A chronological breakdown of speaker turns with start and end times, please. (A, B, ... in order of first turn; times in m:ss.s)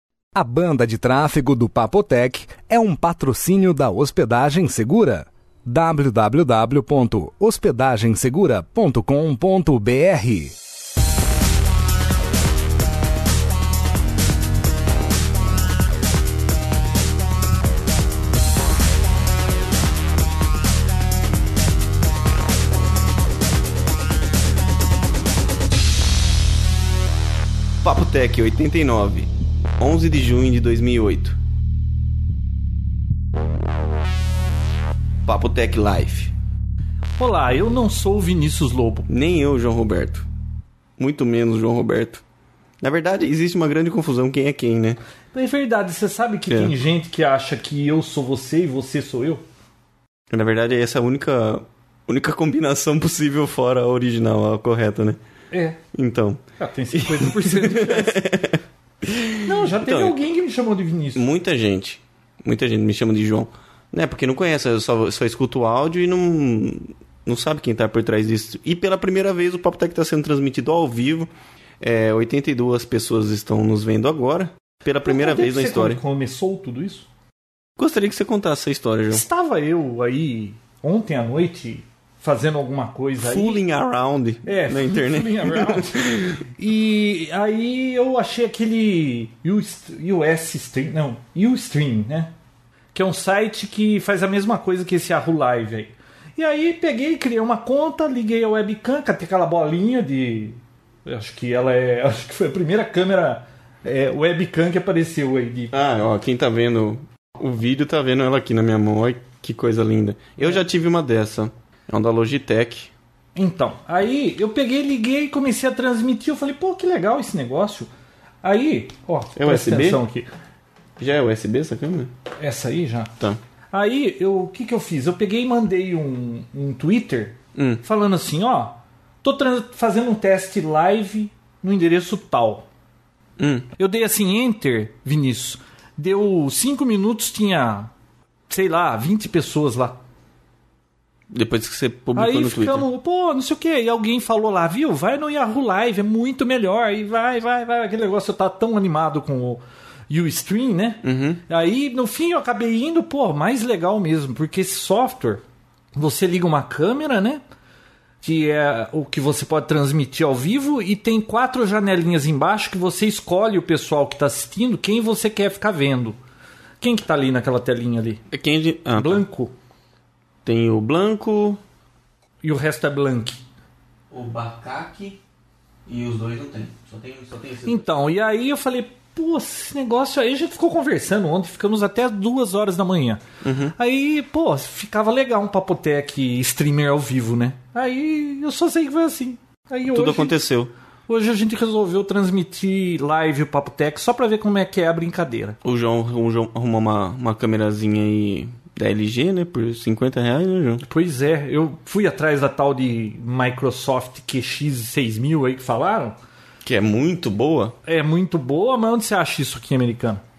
0:00.3-0:10.5 A
0:27.8-0:31.4 B
0:35.2-0:36.3 B
0:37.2-0:39.1 C
0:39.1-0:40.3 B
0:41.0-0:42.2 B
0:42.8-0:45.0 B
0:45.3-0:49.4 C
0:46.5-0:46.7 B
0:50.3-0:55.2 B
0:55.5-0:55.8 C
0:55.9-0:56.4 B
0:56.6-0:58.2 C
0:56.9-1:00.2 B
0:59.4-1:01.2 C
1:01.1-1:16.0 B
1:15.0-1:17.1 C
1:17.8-1:19.2 B
1:19.1-1:23.6 C
1:23.2-1:26.4 B
1:24.4-1:32.3 C
1:32.9-1:45.7 C
1:45.7-1:52.9 B
1:53.4-1:57.9 C
1:58.4-2:00.3 C
1:59.4-2:00.0 B
2:01.0-2:02.1 B
2:02.4-2:03.1 C
2:03.7-2:12.6 C
2:07.5-2:07.8 B
2:13.4-2:13.7 B
2:13.8-2:17.9 C
2:18.5-2:20.0 C
2:21.3-2:22.9 B
2:22.1-2:35.4 C
2:31.0-2:31.4 B
2:35.9-2:37.4 C
2:38.2-2:46.2 C
2:46.8-2:48.2 C
2:48.3-2:49.2 B
2:49.0-2:49.5 C
2:50.4-2:51.6 B
2:52.4-2:53.4 C
2:54.1-2:55.2 B
2:55.8-2:57.9 B
2:57.6-3:03.2 C
3:03.4-3:03.7 B
3:03.8-3:10.4 C
3:09.9-3:10.7 B
3:11.1-3:15.6 C
3:15.6-3:20.8 B
3:20.8-3:26.1 C
3:26.6-3:27.8 B
3:27.8-3:30.2 C